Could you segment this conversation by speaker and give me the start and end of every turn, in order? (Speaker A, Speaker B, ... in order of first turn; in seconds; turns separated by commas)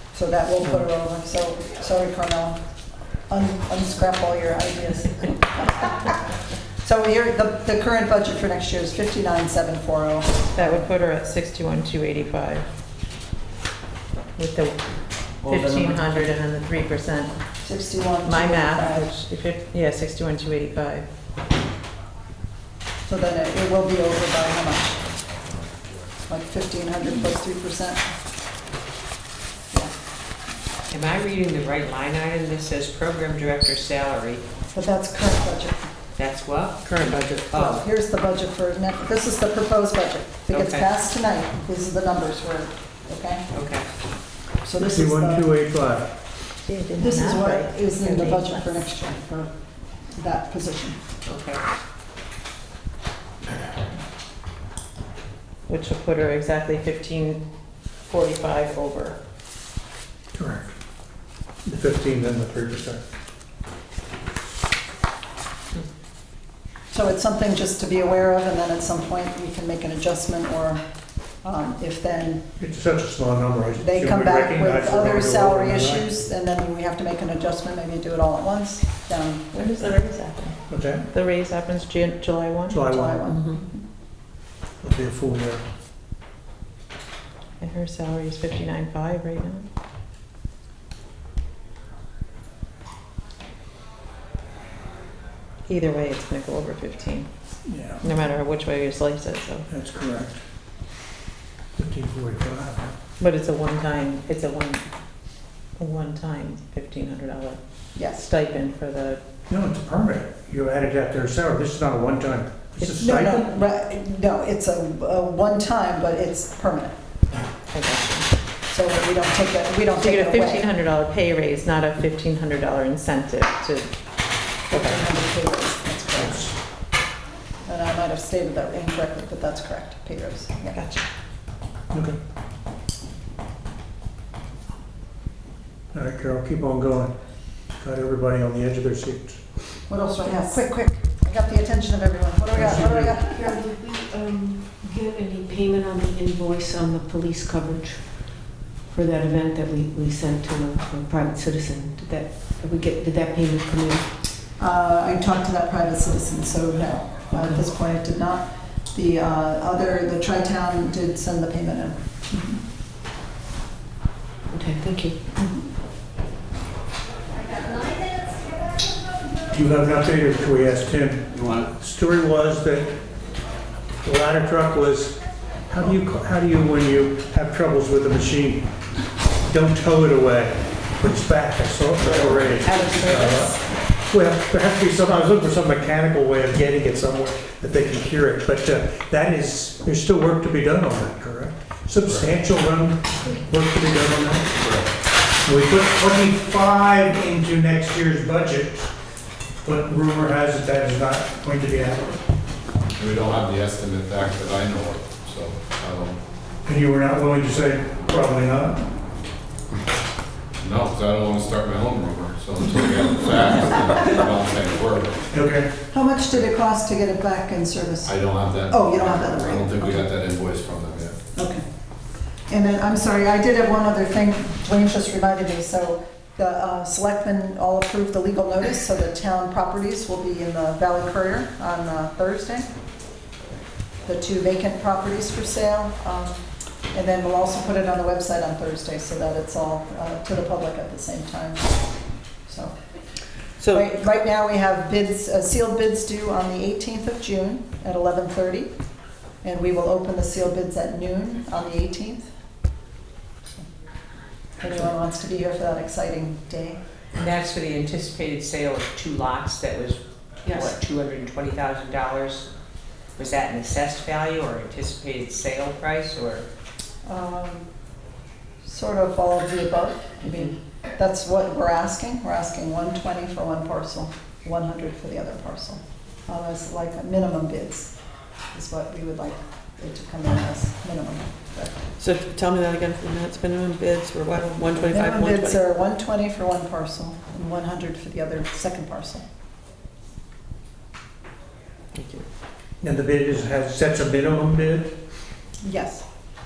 Speaker A: 0.1-2.6, Speaker A: 3.3-6.2, Speaker A: 6.8-10.4, Speaker B: 10.5-12.7, Speaker B: 14.4-14.8, Speaker B: 15.4-17.3, Speaker A: 17.6-19.1, Speaker B: 18.2-21.1, Speaker A: 23.1-25.1, Speaker A: 26.3-28.1, Speaker C: 30.9-34.4, Speaker A: 34.7-35.9, Speaker C: 36.2-37.8, Speaker A: 37.5-43.5, Speaker C: 40.5-40.9, Speaker C: 43.5-43.9, Speaker A: 44.6-45.5, Speaker D: 44.8-46.1, Speaker B: 46.7-48.9, Speaker A: 47.0-49.5, Speaker A: 50.1-51.0, Speaker C: 51.3-51.6, Speaker B: 55.7-57.4, Speaker B: 58.1-59.2, Speaker D: 60.3-60.8, Speaker D: 61.7-63.0, Speaker A: 66.9-70.8, Speaker A: 71.4-72.4, Speaker D: 72.6-76.2, Speaker A: 73.8-79.9, Speaker B: 79.6-80.6, Speaker D: 80.7-81.1, Speaker B: 81.1-82.8, Speaker D: 82.7-83.2, Speaker A: 82.9-83.8, Speaker D: 84.8-85.6, Speaker B: 87.6-89.7, Speaker B: 95.7-97.3, Speaker D: 97.7-98.0, Speaker B: 98.0-99.7, Speaker D: 99.7-100.4, Speaker D: 101.8-103.0, Speaker B: 103.2-104.9, Speaker B: 105.8-107.6, Speaker A: 108.0-108.3, Speaker B: 108.1-109.2, Speaker D: 109.5-113.5, Speaker B: 112.8-113.2, Speaker A: 113.0-117.0, Speaker B: 117.7-118.3, Speaker A: 118.7-120.7, Speaker B: 120.0-123.9, Speaker A: 124.7-126.5, Speaker B: 124.7-125.0, Speaker D: 126.2-126.5, Speaker A: 127.7-130.8, Speaker B: 130.7-131.0, Speaker D: 131.9-132.2, Speaker D: 135.9-137.2, Speaker D: 137.8-139.4, Speaker A: 139.9-143.5, Speaker E: 142.6-154.1, Speaker D: 142.6-143.2, Speaker A: 154.6-162.6, Speaker E: 157.3-157.6, Speaker E: 164.5-165.2, Speaker D: 169.5-173.0, Speaker D: 174.0-178.7, Speaker D: 179.5-194.5, Speaker E: 182.6-183.6, Speaker F: 194.6-194.9, Speaker D: 195.4-198.9, Speaker D: 199.6-202.2, Speaker F: 203.0-206.2, Speaker D: 206.7-208.9, Speaker F: 210.6-215.2, Speaker D: 215.3-215.7, Speaker A: 215.9-220.0, Speaker F: 218.0-221.2, Speaker A: 221.3-221.6, Speaker A: 222.5-232.7, Speaker A: 234.1-236.4, Speaker A: 236.9-241.7, Speaker A: 242.5-242.7, Speaker A: 243.7-248.7, Speaker A: 249.4-252.2, Speaker A: 254.6-256.8, Speaker C: 257.2-262.5, Speaker E: 260.5-260.7, Speaker C: 263.2-266.4, Speaker A: 267.1-267.7, Speaker A: 268.6-277.9, Speaker A: 278.5-281.8, Speaker G: 282.0-285.6, Speaker A: 284.9-289.2, Speaker G: 291.9-292.2, Speaker D: 292.8-295.0, Speaker A: 295.6-296.1